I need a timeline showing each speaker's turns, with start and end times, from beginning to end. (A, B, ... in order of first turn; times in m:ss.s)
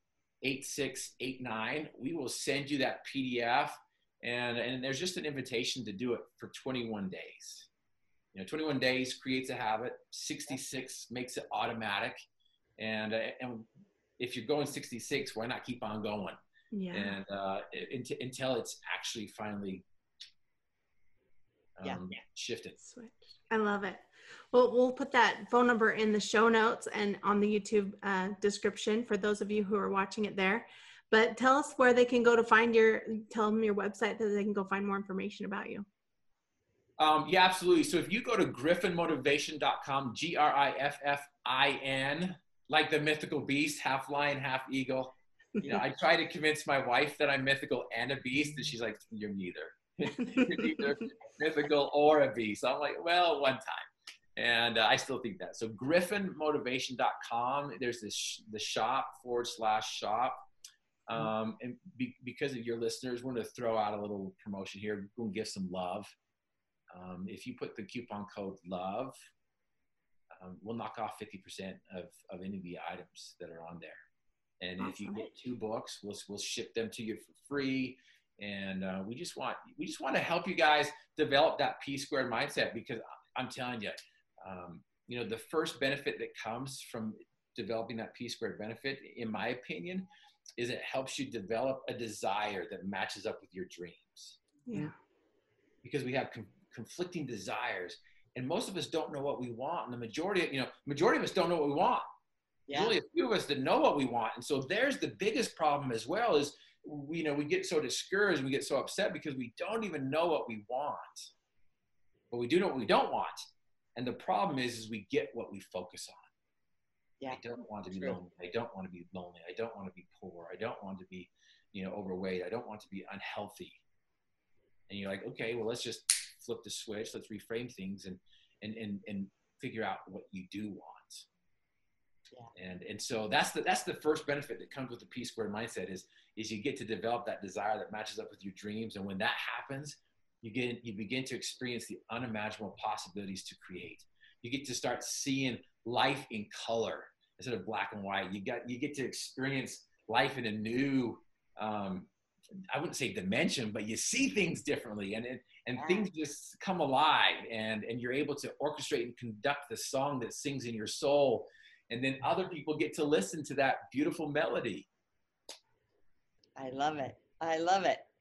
0:00.4-0:07.7 A
0:08.3-0:12.2 A
0:12.8-0:13.7 A
0:14.2-0:16.4 A
0:16.7-0:17.1 B
0:16.9-0:19.8 A
0:21.8-0:22.8 A
0:22.9-0:35.8 B
0:37.0-1:00.4 A
1:01.1-1:06.1 A
1:06.9-1:09.1 A
1:10.3-1:14.0 A
1:14.6-1:30.1 A
1:14.8-1:15.3 B
1:30.6-1:34.4 A
1:35.8-1:42.0 A
1:42.7-1:42.9 C
1:42.7-1:51.3 A
1:52.3-1:53.4 A
1:54.0-1:56.3 A
1:57.3-2:03.8 A
2:04.9-2:11.2 A
2:12.5-2:32.1 A
2:32.7-2:44.9 A
2:35.8-2:36.1 C
2:46.6-2:48.0 C